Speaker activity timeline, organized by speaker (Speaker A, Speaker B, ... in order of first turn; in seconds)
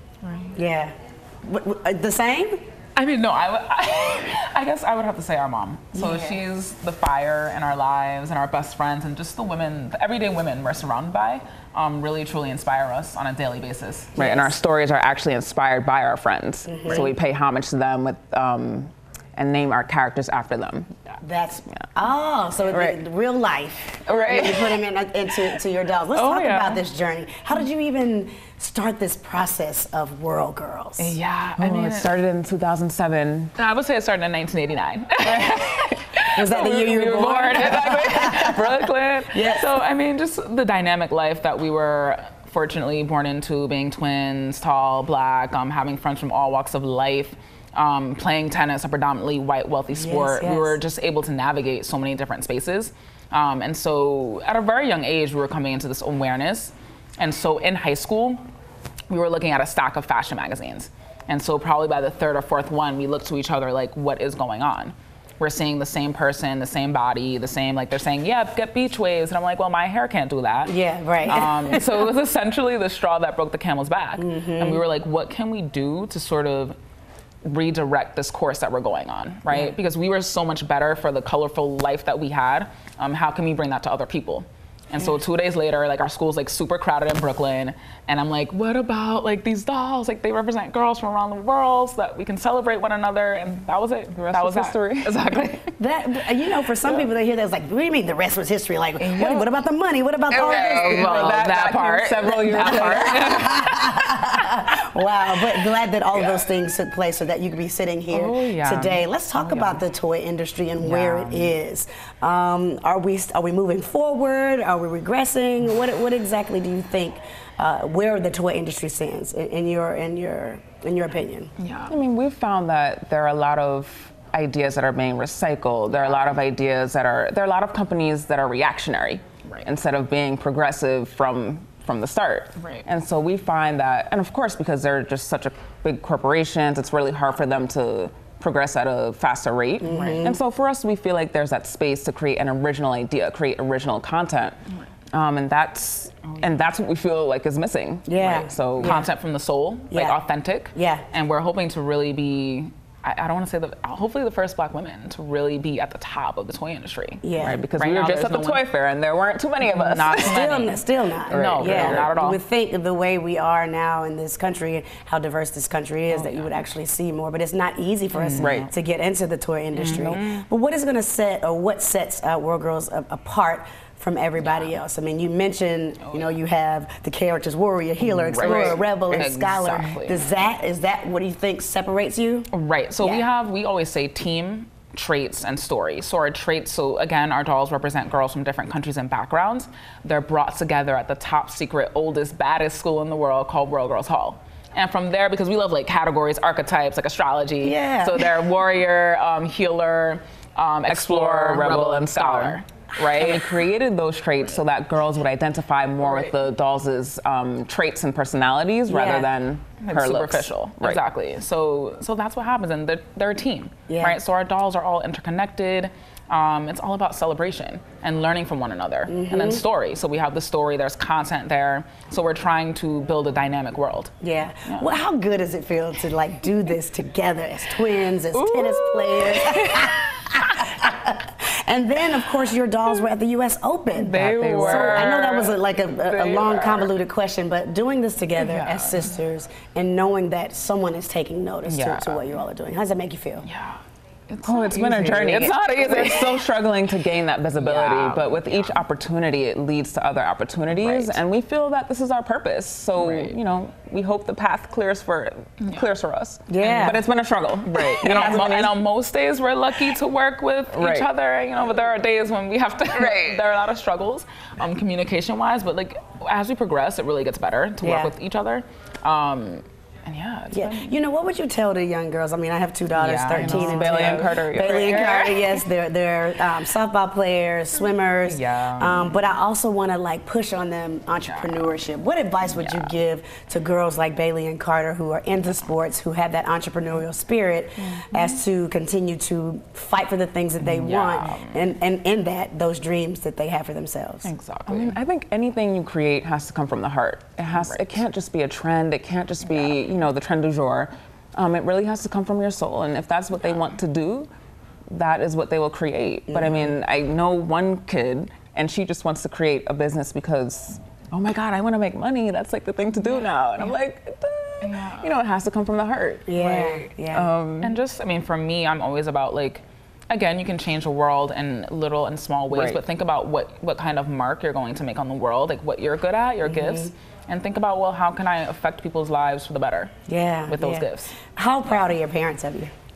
Speaker A: 0.2-0.5, 3.0-14.3, 26.1-26.8, 31.0-32.1, 33.6-58.4, 59.1-76.8, 77.4-95.7, 99.0-99.5, 100.3-104.0, 108.1-109.8, 110.8-111.5, 121.6-122.0, 132.6-132.8, 139.9-140.2, 148.8-158.6, 159.8-162.4, 166.1-166.5, 168.1-168.7, 169.8-170.4, 174.4-174.7, 176.0-176.3, 178.3-180.2, 182.5-203.5, 209.8-224.1, 228.3-230.6, 233.9-235.5, 236.1-236.9, 238.4-239.1, 241.6-242.4, 243.4-246.4, 247.6-248.8, 250.7-251.2, 253.0-253.3, 255.6-255.9, 256.6-257.0, 257.6-270.9, 272.9-275.6, 278.2-279.1, 281.2-281.7, 282.5-282.9, 287.9-288.4, 290.6-291.7, 294.2-295.0, 297.5-298.0, 314.6-315.2, 317.6-329.9, 330.5-331.1
Speaker B: 0.5-0.9, 1.4-2.6, 5.9-6.4, 14.2-14.5, 16.7-17.1, 21.2-31.1, 36.3-38.6, 39.3-39.7, 49.9-50.8, 70.6-71.9, 74.2-74.8, 95.8-101.4, 102.2-121.5, 139.8-140.4, 148.1-149.1, 149.9-150.2, 150.7-151.1, 157.2-157.6, 159.8-182.5, 183.0-183.2, 197.6-198.3, 208.9-209.3, 213.9-214.2, 219.1-219.6, 224.2-243.4, 256.5-257.0, 258.0-258.4, 267.8-268.1, 270.5-294.3, 306.3-306.7, 316.3-317.3, 326.4-326.9, 330.1-332.7
Speaker C: 14.2-20.9, 22.7-23.0, 24.1-24.7, 31.6-33.5, 94.1-95.1, 100.3-103.4, 121.9-144.6, 145.1-149.0, 157.4-160.4, 161.3-162.1, 168.4-168.7, 169.8-170.1, 178.0-179.9, 200.8-211.0, 234.0-235.3, 244.4-258.8, 260.7-261.1, 262.9-263.5, 273.3-275.2, 294.7-304.3, 304.9-317.8, 322.5-322.8